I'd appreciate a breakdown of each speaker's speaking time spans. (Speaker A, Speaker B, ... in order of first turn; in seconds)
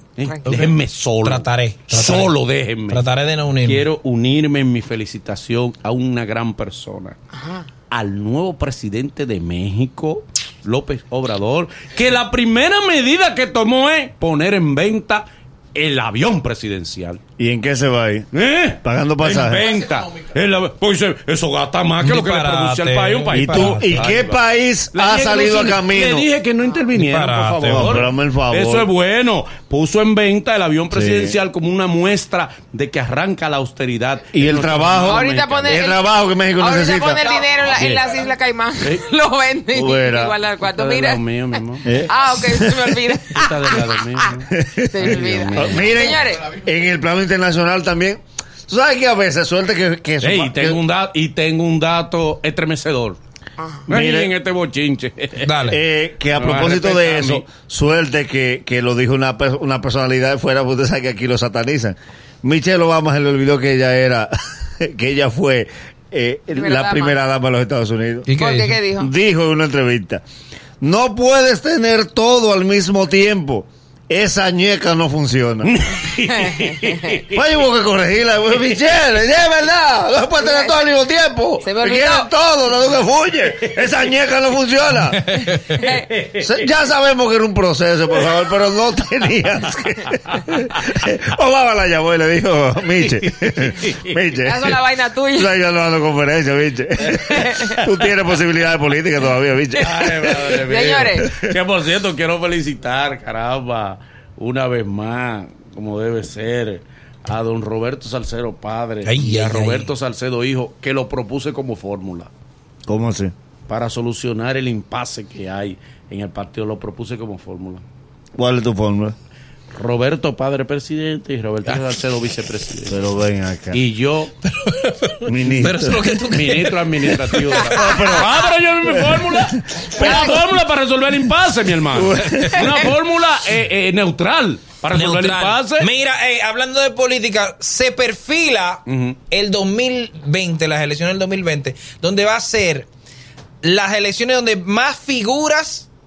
Speaker A: 0.2-3.1, 3.6-7.2, 7.9-17.2, 18.3-24.4, 24.9-35.9, 37.6-38.2, 38.8-39.0, 40.6-41.9, 43.3-46.1, 50.2-53.2, 53.9-55.7, 56.3-57.5, 75.6-77.3, 85.8-86.5, 93.3-94.1, 99.8-112.3, 113.7-117.8, 119.8-123.0, 123.7-124.3, 126.3-135.9, 138.9-139.2
Speaker B: 0.3-0.7, 7.3-7.7, 35.1-36.0, 36.6-41.2, 42.0-44.0, 44.9-46.5, 53.6-53.9, 66.5-67.2, 68.3-69.1, 80.4-80.8, 81.6-82.3, 85.5-86.0, 94.4-95.5, 97.1-97.8, 100.5-101.3, 127.6-128.2, 130.0-130.4, 132.6-132.8
Speaker C: 1.2-2.4, 2.9-3.9, 22.0-24.1, 26.9-27.9, 55.4-55.8, 68.3-68.8, 85.2-85.8, 109.0-109.9, 124.4-127.4, 132.2-132.5, 134.9-142.9, 143.6-145.9
Speaker D: 17.4-18.3, 18.8-19.6, 23.3-26.3, 27.7-28.9, 30.9-31.3, 34.3-37.2, 39.7-40.3, 41.8-42.9, 44.5-50.8, 53.9-54.3, 55.7-68.3, 69.0-70.2, 70.8-75.7, 77.3-85.3, 86.4-94.8, 95.3-100.4, 112.9-113.3, 118.4-119.2, 122.9-123.8, 125.3-126.1, 127.6-130.4, 131.9-132.7